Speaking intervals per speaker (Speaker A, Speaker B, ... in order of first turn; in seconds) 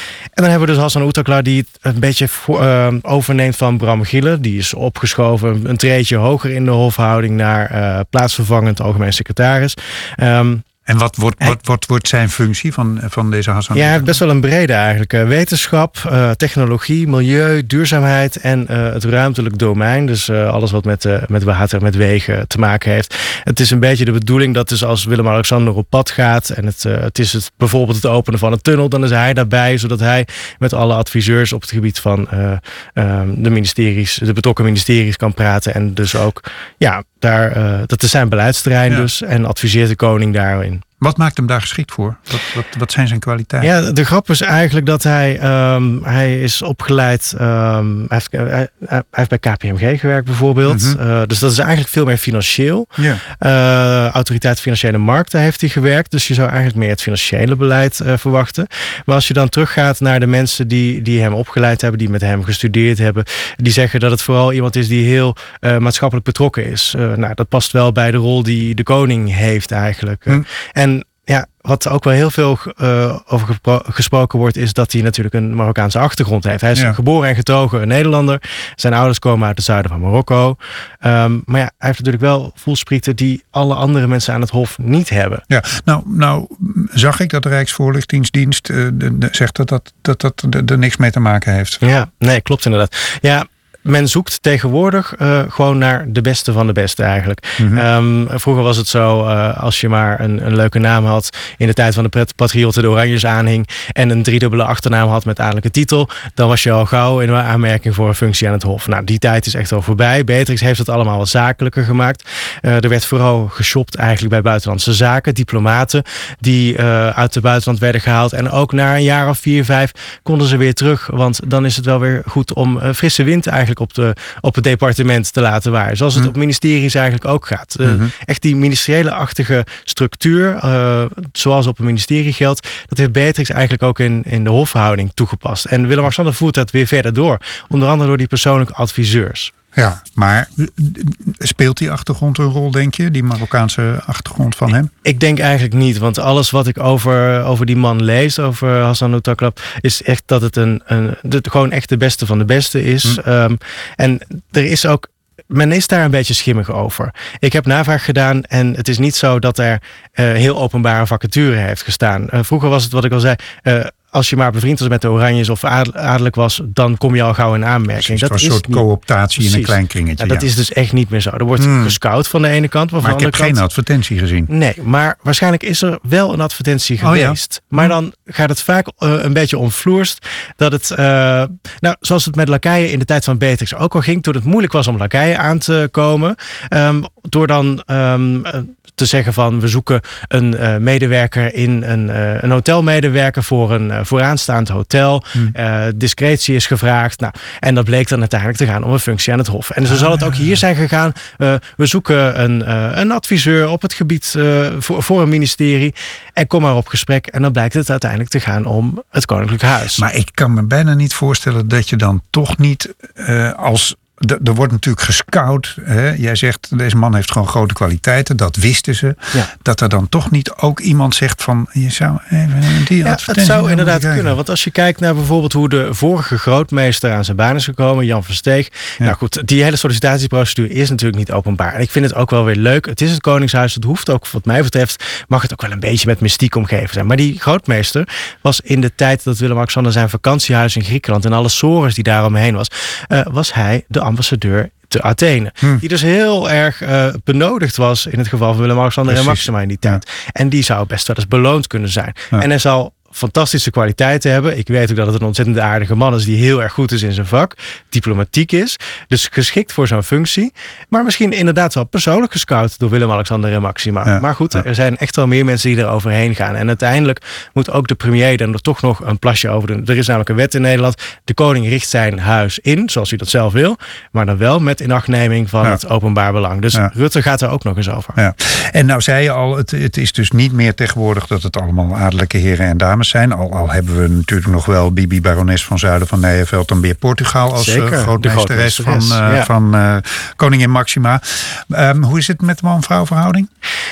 Speaker A: 0.4-10.7, 13.7-40.8, 43.6-85.4, 91.8-139.5, 145.0-168.8, 169.4-173.6, 174.5-210.1, 223.0-278.1, 287.6-289.5
Speaker B: 10.9-14.2, 41.0-43.7, 50.7-51.0, 85.5-91.8, 97.6-97.8, 127.8-128.1, 139.8-144.9, 168.0-170.5, 171.6-172.0, 173.0-174.5, 177.0-178.0, 210.0-224.4, 249.1-250.0, 264.1-264.6, 278.2-293.5